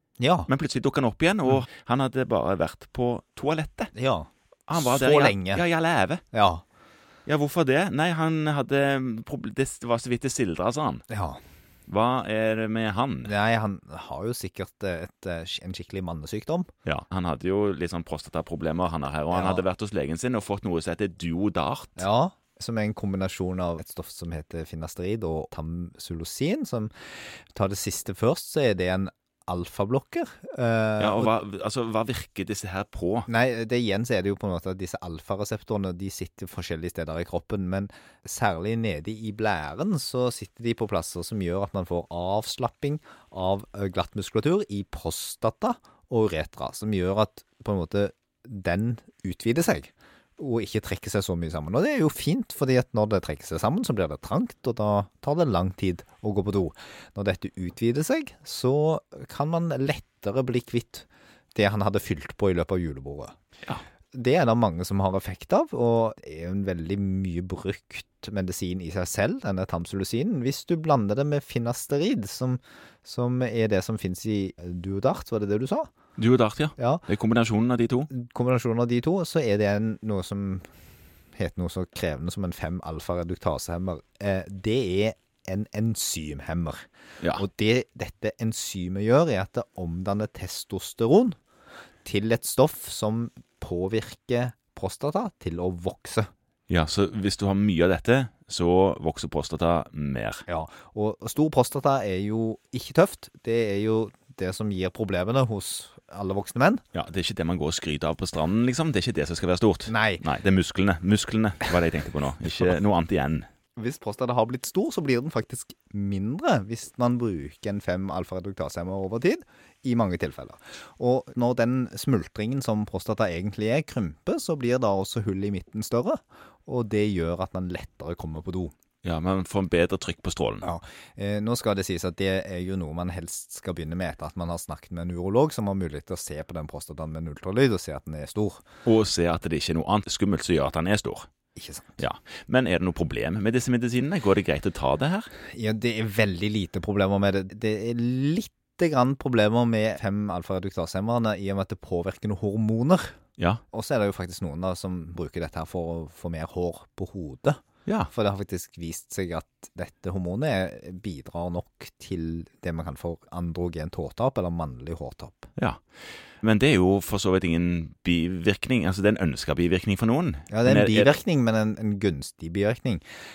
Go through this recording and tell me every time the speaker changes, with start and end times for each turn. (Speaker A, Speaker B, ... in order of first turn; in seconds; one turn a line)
Speaker A: 0.2-0.5
Speaker B: 0.5-3.9
Speaker A: 3.9-5.6
Speaker B: 4.7-6.2
Speaker A: 6.3-6.6
Speaker B: 7.3-11.1
Speaker A: 11.1-11.4
Speaker B: 11.9-13.3
Speaker A: 13.2-16.7
Speaker B: 16.9-22.1
Speaker A: 19.3-19.6
Speaker A: 22.0-26.9
Speaker A: 27.5-31.3
Speaker B: 31.0-33.3
Speaker A: 33.3-63.3
Speaker A: 64.1-75.9
Speaker B: 76.2-78.1
Speaker A: 76.8-77.1
Speaker A: 78.1-80.7
Speaker A: 81.4-91.4
Speaker A: 92.0-96.3
Speaker B: 96.7-100.5
Speaker A: 100.5-106.8
Speaker B: 106.9-113.5
Speaker A: 109.9-110.2
Speaker A: 113.8-128.7
Speaker B: 129.0-130.7
Speaker A: 130.6-138.6
Speaker B: 138.8-141.3
Speaker A: 141.6-142.0
Speaker B: 142.0-145.3
Speaker A: 145.5-153.2
Speaker A: 153.7-157.6
Speaker B: 157.9-158.1
Speaker A: 158.1-165.5
Speaker B: 166.4-171.1
Speaker A: 170.5-173.0